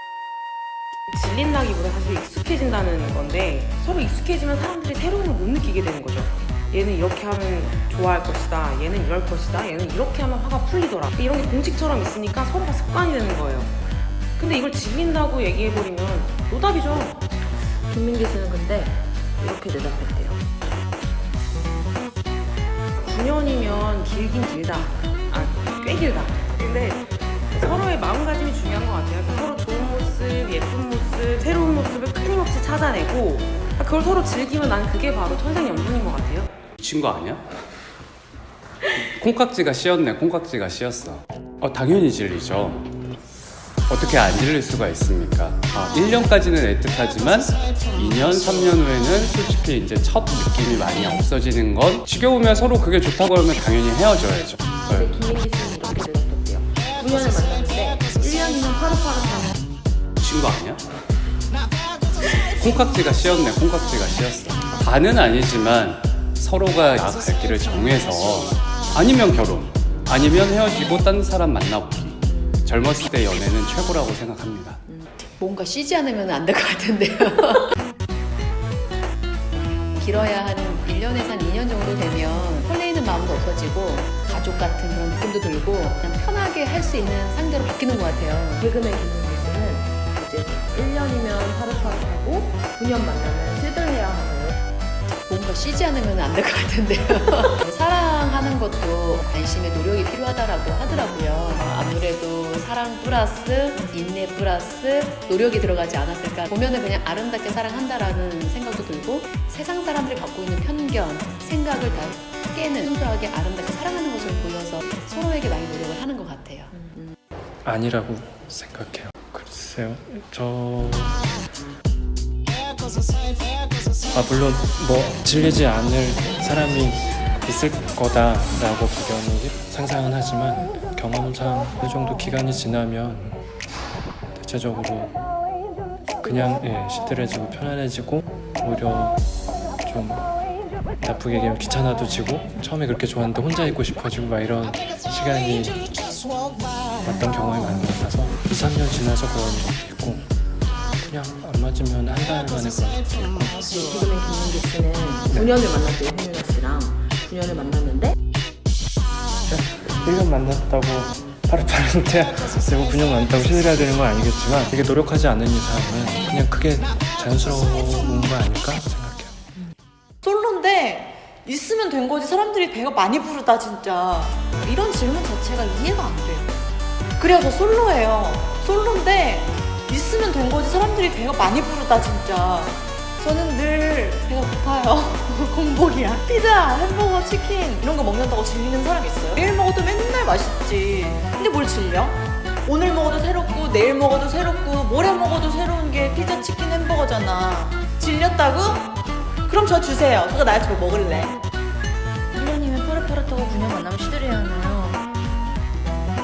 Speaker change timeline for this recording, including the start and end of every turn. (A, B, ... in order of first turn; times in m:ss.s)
0:01.1-0:13.7 A
0:14.4-0:17.3 A
0:17.9-0:20.4 B
0:23.0-0:36.5 A
0:36.8-0:37.4 C
0:39.0-0:42.9 C
0:43.9-0:55.1 C
0:54.9-0:59.6 B
1:00.2-1:00.8 C
1:02.6-1:14.8 C
1:15.2-1:17.7 D
1:19.9-1:28.7 D
1:28.6-1:34.5 B
1:35.3-1:56.8 D
1:57.6-2:01.3 E
2:04.1-2:13.4 E
2:14.3-2:15.1 E
2:16.2-2:19.2 E
2:19.8-2:20.3 E
2:21.0-2:25.9 E
2:27.0-2:30.2 E
2:31.0-2:33.6 E
2:33.6-2:38.1 B
2:35.3-2:35.6 E
2:39.5-2:49.4 E
2:50.2-2:56.5 F
2:57.2-3:18.9 F
3:19.5-3:21.4 F
3:22.3-3:25.0 G